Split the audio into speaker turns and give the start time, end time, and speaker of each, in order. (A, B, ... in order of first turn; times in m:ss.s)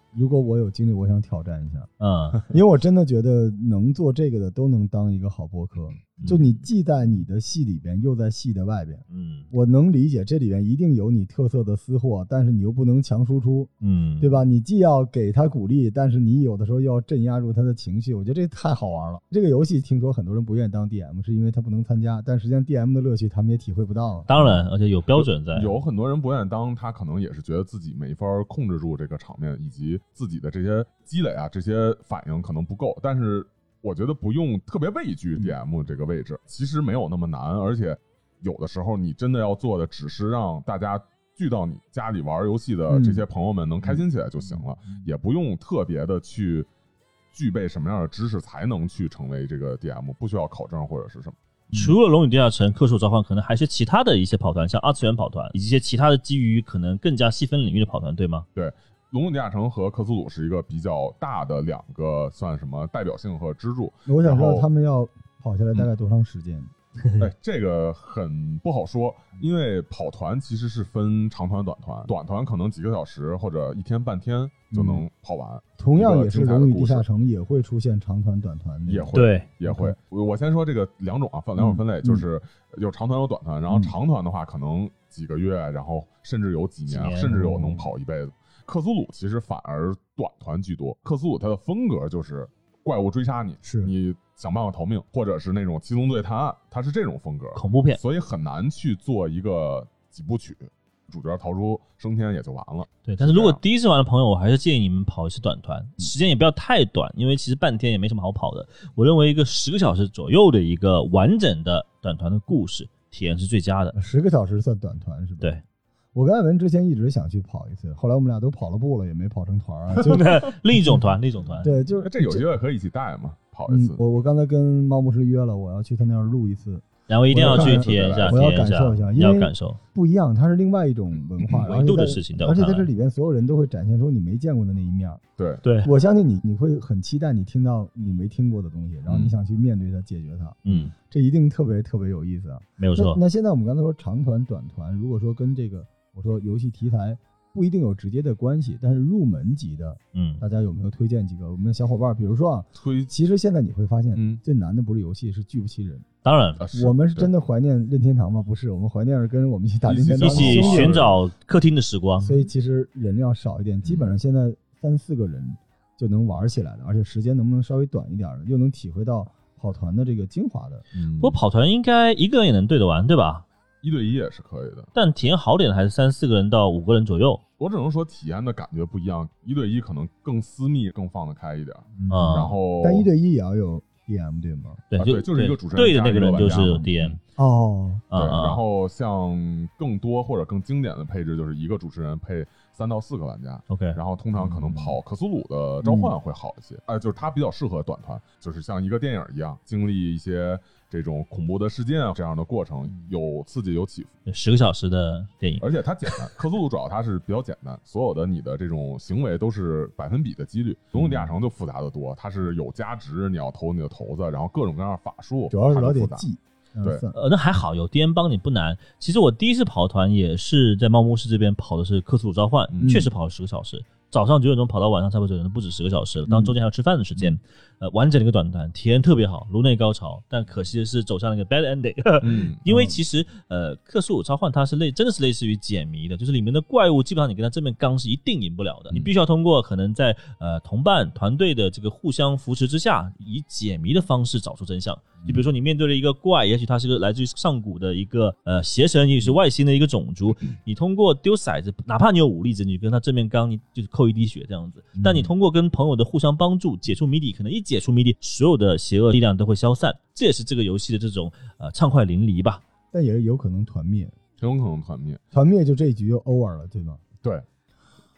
0:00.1-0:01.9 A
0:02.0-0:02.4 B
0:02.5-0:24.3 A
0:06.2-0:06.6 C
0:09.1-0:09.5 B
0:13.8-0:14.4 B
0:24.3-0:25.7 B
0:25.2-0:46.7 C
0:42.9-0:43.2 A
0:43.8-0:45.0 A
0:47.3-0:51.4 C
0:51.7-0:58.5 B
0:58.6-1:04.7 C
1:04.1-1:06.7 A
1:07.2-1:17.0 C
1:14.7-1:15.0 A
1:15.8-1:20.0 A
1:18.9-1:43.6 C
1:19.1-1:19.5 B
1:21.6-1:22.2 A
1:26.9-1:27.5 B
1:27.3-1:27.9 A
1:33.6-1:33.9 A
1:37.6-1:38.0 B
1:43.1-1:54.0 B
1:53.9-1:55.5 A
1:56.1-2:01.0 A
2:00.0-2:01.7 B
2:01.6-2:02.5 A
2:02.0-2:04.0 C
2:03.7-2:15.2 A
2:07.1-2:09.8 B
2:07.4-2:08.6 C
2:11.4-2:11.7 C
2:11.7-2:12.9 B
2:15.4-2:15.6 C
2:15.6-2:15.9 B
2:15.8-2:36.0 A
2:19.1-2:19.3 C
2:20.6-2:20.9 B
2:22.8-2:23.2 B
2:30.1-2:30.4 B
2:32.8-2:33.1 C
2:34.2-2:34.4 C
2:36.2-2:36.6 B
2:36.6-2:37.3 C
2:36.7-2:41.0 A
2:39.9-2:41.2 C
2:40.2-2:42.4 B
2:42.2-2:50.8 A
2:50.9-2:51.4 C
2:51.2-2:53.4 B
2:53.8-2:54.9 C
2:55.0-2:57.4 B
2:57.6-3:03.1 C
3:02.0-3:04.8 A
3:02.1-3:02.5 B
3:04.9-3:07.2 B
3:05.0-3:07.2 C
3:07.4-3:08.0 A
3:08.1-3:08.6 B
3:08.1-3:24.1 C
3:13.7-3:14.0 B
3:14.4-3:15.0 A
3:15.8-3:16.1 A
3:24.3-3:25.7 B
3:25.6-3:36.2 C
3:31.0-3:31.3 A
3:35.5-3:37.2 A
3:37.1-4:22.6 B
3:42.7-3:43.0 C
3:42.8-3:43.1 A
3:46.3-3:46.6 A
3:52.2-3:52.6 C
3:52.7-3:53.0 A
4:15.0-4:15.3 A
4:22.9-4:24.2 A
4:24.4-4:25.2 C
4:25.3-4:27.0 A